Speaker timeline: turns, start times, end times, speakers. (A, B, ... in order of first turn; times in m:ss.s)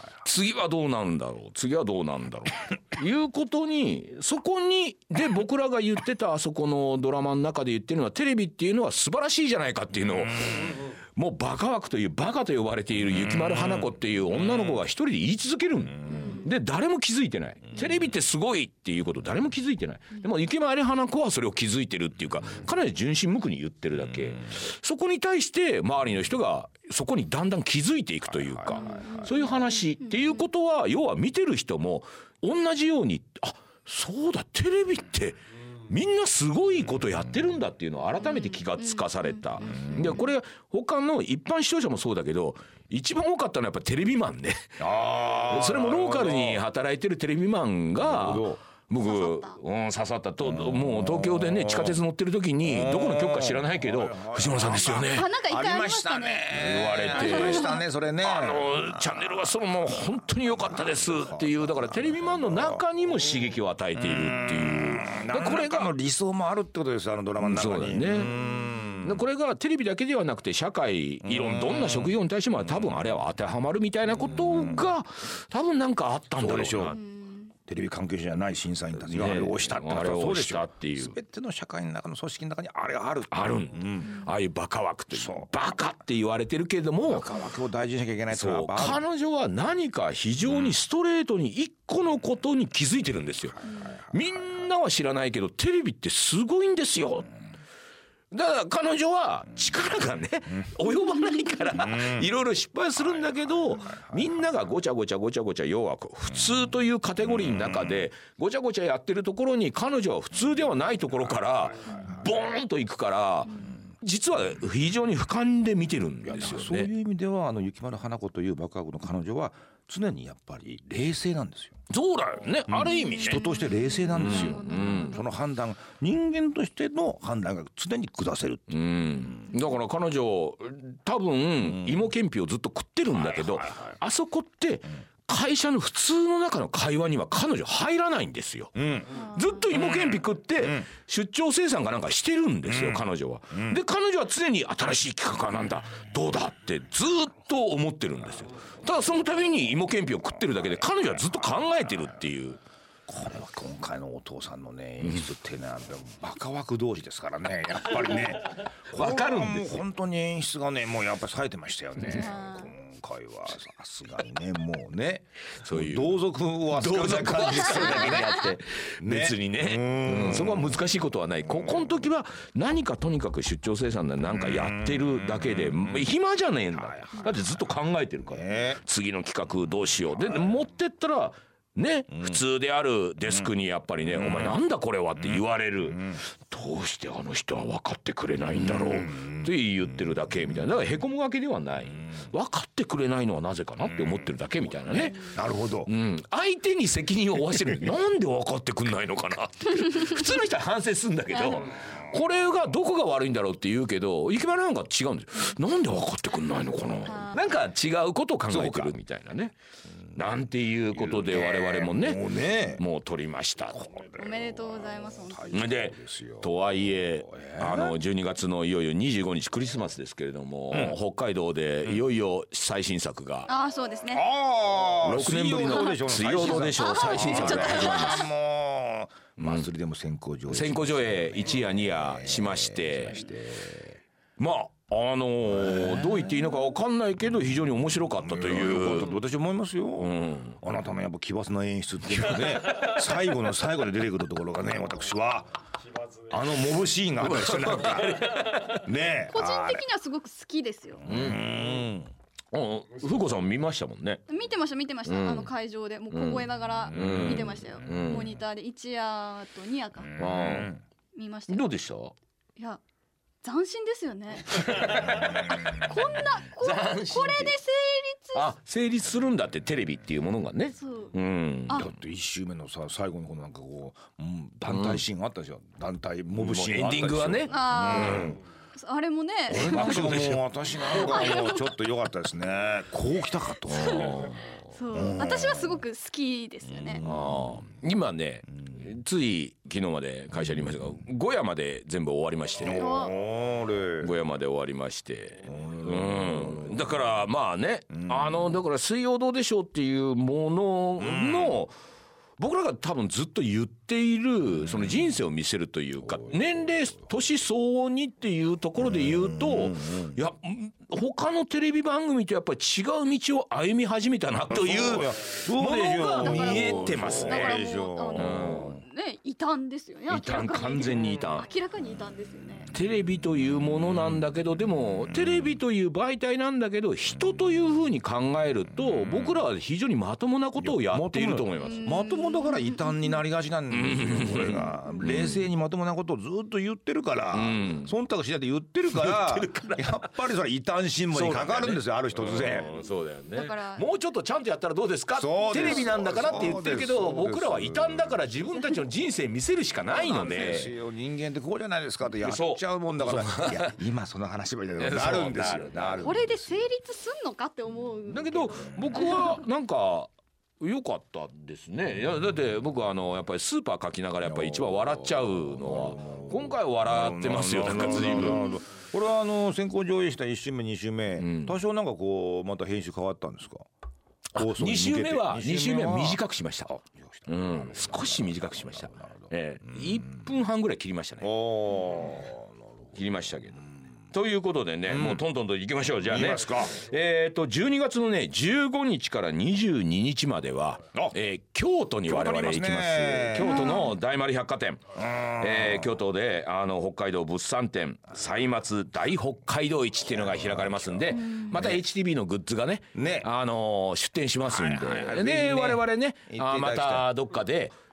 0:00.2-0:55.3 A
0:16.1-0:16.4 B
0:28.4-0:29.4 C
0:28.7-0:30.3 B
0:38.2-0:40.0 B
0:39.6-0:40.2 C
0:44.8-0:46.6 C
0:48.0-0:48.6 C
0:49.0-0:49.6 B
0:50.4-0:52.0 C
0:52.6-0:59.5 C
0:55.0-0:57.8 B
0:56.5-1:05.9 A
1:00.5-1:02.8 C
1:04.0-1:09.2 C
1:07.4-1:08.4 A
1:09.0-1:17.0 A
1:11.2-1:12.1 C
1:14.4-1:14.8 C
1:16.4-1:17.0 C
1:17.2-1:17.5 B
1:17.6-1:24.2 C
1:19.1-1:21.2 A
1:23.3-1:27.3 A
1:25.1-1:25.5 C
1:27.0-1:29.0 C
1:28.3-1:37.3 A
1:33.6-1:34.2 C
1:38.3-1:56.9 A
1:42.0-1:42.2 C
1:43.2-1:44.4 C
1:51.8-1:52.2 C
1:56.3-2:01.8 C
2:01.9-2:03.5 A
2:02.7-2:08.8 C
2:02.9-2:05.2 B
2:04.1-2:05.2 A
2:08.7-2:32.6 A
2:13.2-2:14.0 C
2:18.8-2:19.2 C
2:19.2-2:19.6 B
2:19.7-2:20.9 C
2:22.7-2:23.8 C
2:33.1-2:48.4 C
2:35.0-2:35.3 A
2:38.9-2:39.8 A
2:42.0-2:42.7 B
2:45.6-3:15.3 A
2:49.0-2:50.8 C
2:51.6-2:51.9 C
2:54.3-2:56.0 C
2:56.8-2:57.5 C
2:58.3-2:58.8 C
3:04.1-3:04.6 C
3:05.9-3:06.2 C
3:08.6-3:09.5 C
3:14.9-3:15.9 C
3:15.8-3:29.5 A
3:27.0-3:27.4 B
3:28.5-3:29.0 C
3:30.1-3:33.9 A
3:30.9-3:32.8 C
3:34.0-3:34.4 C
3:34.2-3:35.6 B
3:35.2-3:36.6 C
3:35.5-3:43.5 A
3:37.2-3:38.0 C
3:40.7-3:41.0 C
3:43.5-3:44.3 B
3:44.1-3:54.0 C
3:45.0-3:48.3 A
3:45.6-3:48.3 B
3:49.4-3:49.6 A
3:50.5-3:53.3 A
3:54.4-3:59.1 A
3:55.5-3:56.3 C
3:58.2-4:05.5 C
4:00.0-4:00.6 A
4:02.1-4:03.0 A
4:06.3-4:09.8 C
4:07.2-4:08.8 A
4:09.3-4:11.1 B
4:11.0-4:12.1 C
4:11.1-4:11.8 A
4:12.5-4:14.2 A
4:14.3-4:20.2 B
4:15.0-4:15.5 A
4:16.1-4:18.3 A
4:16.9-4:17.5 C
4:20.2-4:20.7 A
4:20.2-4:20.8 C
4:21.1-4:21.7 B
4:21.5-4:22.2 A
4:23.4-4:28.5 B
4:24.5-4:27.5 A
4:25.0-4:25.8 C
4:28.3-4:31.8 A
4:30.8-4:31.1 B
4:31.7-4:38.4 C
4:34.7-4:35.0 A
4:36.4-4:38.3 A
4:37.5-4:40.0 B
4:39.5-4:44.3 C
4:39.5-4:41.3 A
4:40.7-4:41.7 B
4:43.7-4:44.6 A
4:43.7-4:44.1 B
4:44.7-4:47.0 B
4:44.9-4:45.8 C
4:46.7-4:47.6 C
4:47.0-4:53.0 A
4:52.6-4:54.1 C
4:52.6-4:53.2 B
4:54.0-5:01.7 A
4:55.4-4:56.9 C
4:57.9-4:58.6 C
5:01.0-5:01.6 C
5:02.4-5:17.6 A
5:08.8-5:10.2 C
5:14.5-5:18.8 C
5:15.8-5:22.7 B
5:18.1-5:18.8 A
5:20.1-5:21.5 A
5:22.7-5:31.9 A
5:29.0-5:29.3 C
5:30.6-5:42.7 C
5:31.6-5:33.2 B
5:33.7-5:35.4 A
5:34.7-5:35.3 B
5:37.3-5:37.9 A
5:38.9-5:40.1 A
5:41.1-5:50.7 A
5:43.3-5:43.9 B
5:45.1-5:48.2 C
5:49.8-5:56.7 C
5:52.2-5:53.8 A
5:54.8-5:56.2 A
5:56.0-5:59.4 B
5:58.1-6:08.5 A
6:04.2-6:13.6 C
6:11.2-6:11.6 A
6:14.3-6:21.3 A
6:14.4-6:16.2 C
6:16.9-6:19.3 C
6:21.2-6:22.7 C
6:22.9-6:47.7 A
6:24.9-6:25.2 C
6:26.0-6:26.8 C
6:32.1-6:33.8 C
6:33.4-6:33.9 B
6:34.9-6:35.9 C
6:40.0-6:41.8 C
6:41.2-6:41.5 B
6:42.9-6:43.3 C
6:44.4-6:47.1 C